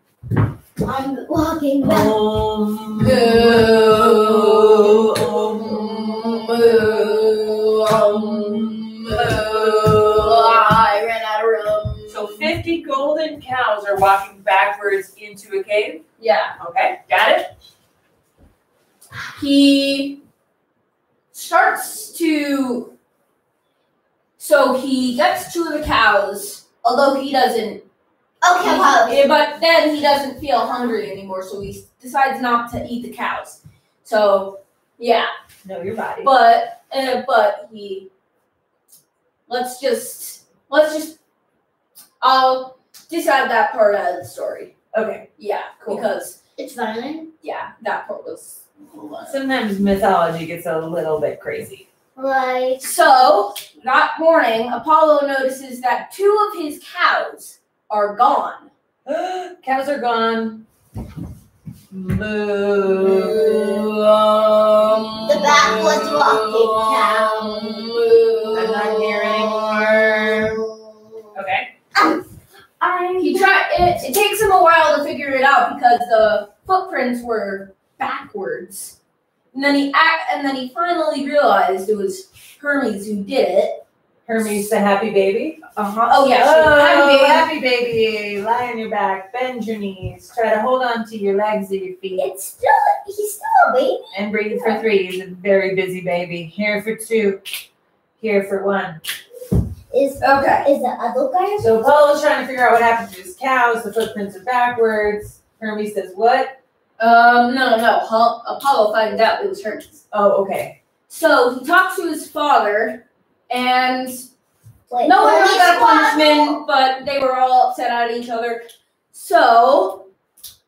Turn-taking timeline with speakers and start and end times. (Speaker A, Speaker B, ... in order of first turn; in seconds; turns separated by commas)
Speaker A: 0.8-2.2, Speaker B: 1.8-7.4, Speaker C: 3.0-12.5, Speaker B: 7.9-10.2, Speaker B: 12.1-16.0, Speaker C: 16.2-16.5, Speaker B: 16.6-17.4, Speaker C: 19.3-20.2, Speaker C: 21.3-22.9, Speaker C: 24.4-27.8, Speaker A: 28.4-29.3, Speaker C: 28.6-35.3, Speaker B: 35.6-36.3, Speaker C: 36.2-38.1, Speaker C: 39.5-41.2, Speaker C: 42.2-44.7, Speaker B: 44.9-45.3, Speaker C: 45.4-46.4, Speaker A: 46.6-47.3, Speaker C: 47.4-49.4, Speaker B: 49.2-51.9, Speaker A: 52.1-52.9, Speaker C: 52.8-58.7, Speaker B: 59.0-60.6, Speaker B: 61.9-63.9, Speaker C: 63.0-69.6, Speaker A: 65.2-71.3, Speaker B: 68.5-70.6, Speaker B: 71.3-71.7, Speaker A: 71.9-72.2, Speaker A: 72.8-73.6, Speaker C: 73.2-79.0, Speaker C: 79.5-83.8, Speaker B: 84.3-85.7, Speaker C: 85.8-87.5, Speaker B: 86.2-92.3, Speaker A: 92.2-94.8, Speaker B: 94.1-97.4, Speaker B: 98.2-99.0, Speaker A: 99.9-102.0, Speaker C: 100.2-100.7, Speaker B: 101.6-106.5, Speaker C: 107.0-110.0, Speaker B: 110.1-110.7, Speaker C: 111.1-114.2, Speaker A: 114.9-116.6, Speaker C: 115.0-120.1